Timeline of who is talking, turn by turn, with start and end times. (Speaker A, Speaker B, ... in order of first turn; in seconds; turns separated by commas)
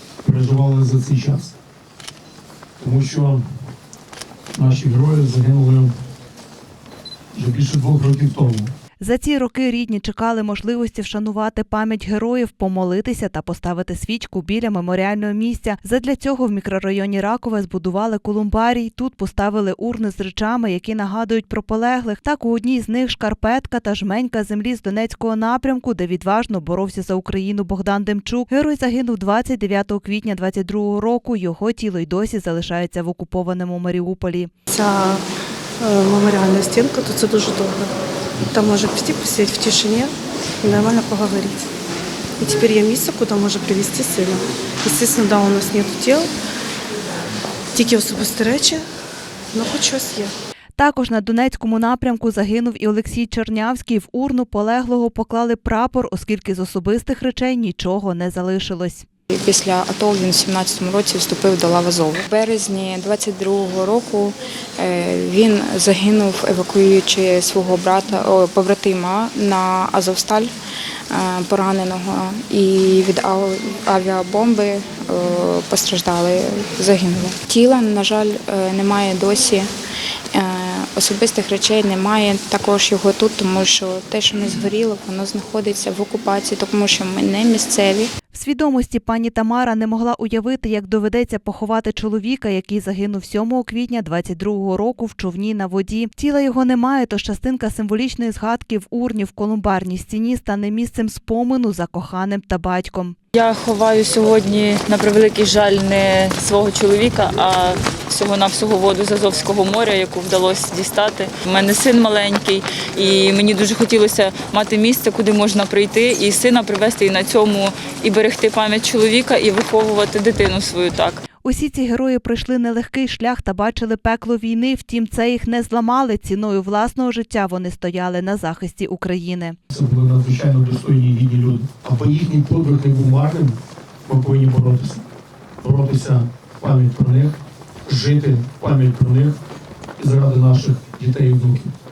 Speaker A: 0.2-1.5, Speaker A: 2.8-3.4, Speaker A: 4.5-5.9, Speaker A: 7.3-8.7, Speaker B: 9.0-34.5, Speaker C: 34.7-35.2, Speaker C: 35.8-37.9, Speaker C: 38.5-41.7, Speaker C: 42.4-46.3, Speaker C: 47.7-48.8, Speaker C: 49.5-50.3, Speaker B: 50.8-59.1, Speaker D: 59.3-70.5, Speaker D: 71.1-79.7, Speaker D: 80.3-88.1, Speaker B: 88.3-103.2, Speaker E: 103.3-121.2, Speaker B: 121.4-129.6, Speaker A: 129.7-135.0, Speaker A: 135.6-139.4, Speaker A: 140.0-141.7